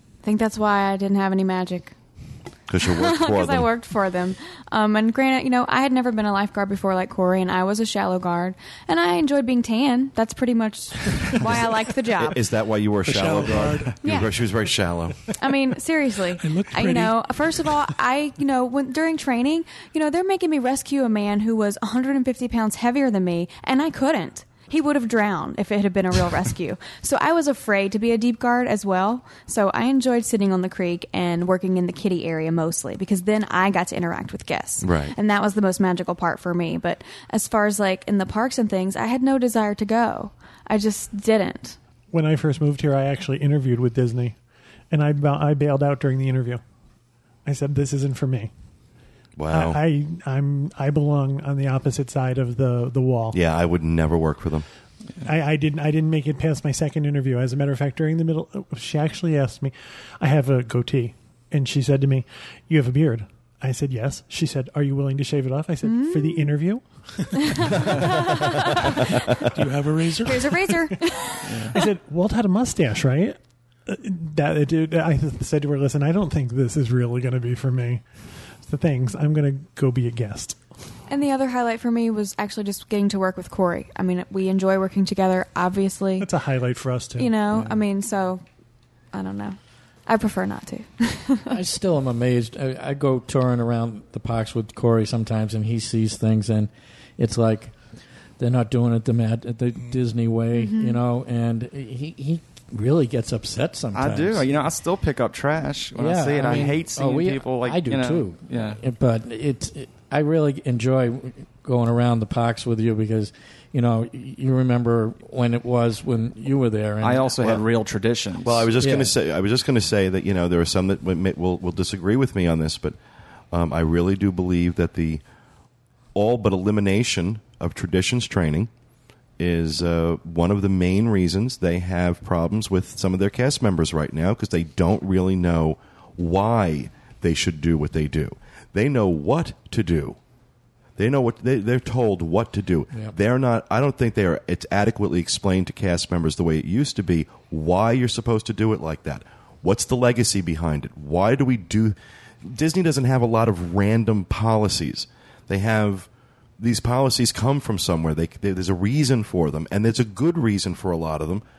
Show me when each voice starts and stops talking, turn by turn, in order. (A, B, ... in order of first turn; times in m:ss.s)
0:00.2-0:01.9 A
0:02.7-0:03.7 B
0:02.9-0:12.4 A
0:12.3-0:15.2 B
0:13.0-0:14.3 C
0:14.0-0:14.3 A
0:15.4-0:41.8 A
0:16.4-0:17.8 C
0:34.8-0:35.1 B
0:42.1-0:44.4 D
0:44.9-0:46.6 D
0:47.4-0:48.5 D
0:49.4-0:49.8 B
0:49.5-0:53.4 D
0:53.3-0:54.7 B
0:55.2-1:06.8 D
1:05.8-1:06.5 A
1:07.6-1:07.9 D
1:07.6-1:08.7 A
1:07.8-1:08.2 B
1:09.5-1:10.5 C
1:10.2-1:11.8 A
1:10.7-1:10.9 D
1:11.5-1:11.7 E
1:11.7-1:20.7 D
1:21.1-1:26.3 A
1:26.2-1:27.3 D
1:27.2-1:28.4 A
1:29.1-1:31.5 A
1:31.5-1:37.8 F
1:38.4-1:44.5 F
1:40.5-1:41.0 A
1:43.9-1:48.8 E
1:46.0-1:57.3 F
1:57.0-1:58.7 E
1:58.4-2:03.0 B
1:58.8-1:59.1 F
2:03.5-2:05.2 B
2:06.2-2:08.7 B
2:09.4-2:20.2 B
2:21.0-2:41.4 B